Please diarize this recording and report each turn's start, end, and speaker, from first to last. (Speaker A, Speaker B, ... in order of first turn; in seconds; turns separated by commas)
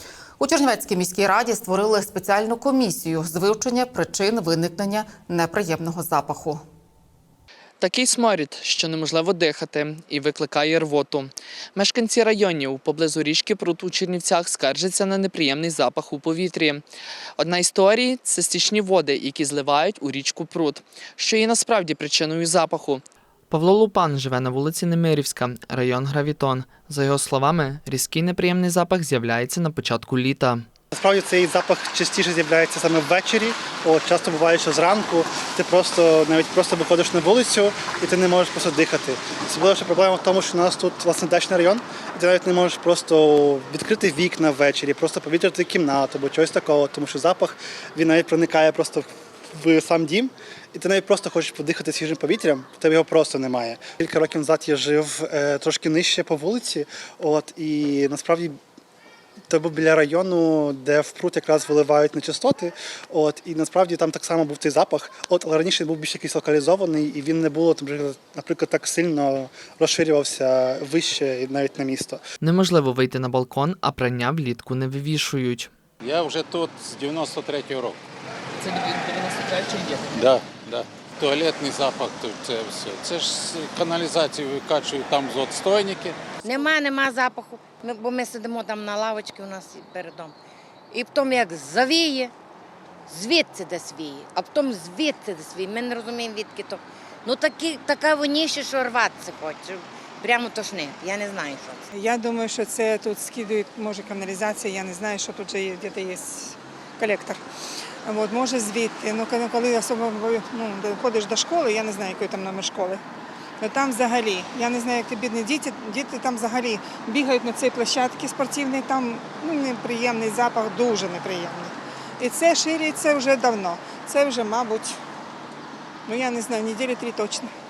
Speaker A: 0.4-6.6, Speaker B: 7.8-16.8, Speaker B: 17.4-30.6, Speaker C: 30.9-58.5, Speaker C: 59.5-72.2, Speaker B: 72.4-75.7, Speaker D: 76.0-78.0, Speaker D: 78.7-86.2, Speaker E: 86.4-90.3, Speaker E: 90.9-92.3, Speaker E: 93.1-101.8, Speaker F: 101.9-107.4, Speaker F: 108.1-113.0, Speaker F: 113.6-125.0, Speaker F: 126.1-127.5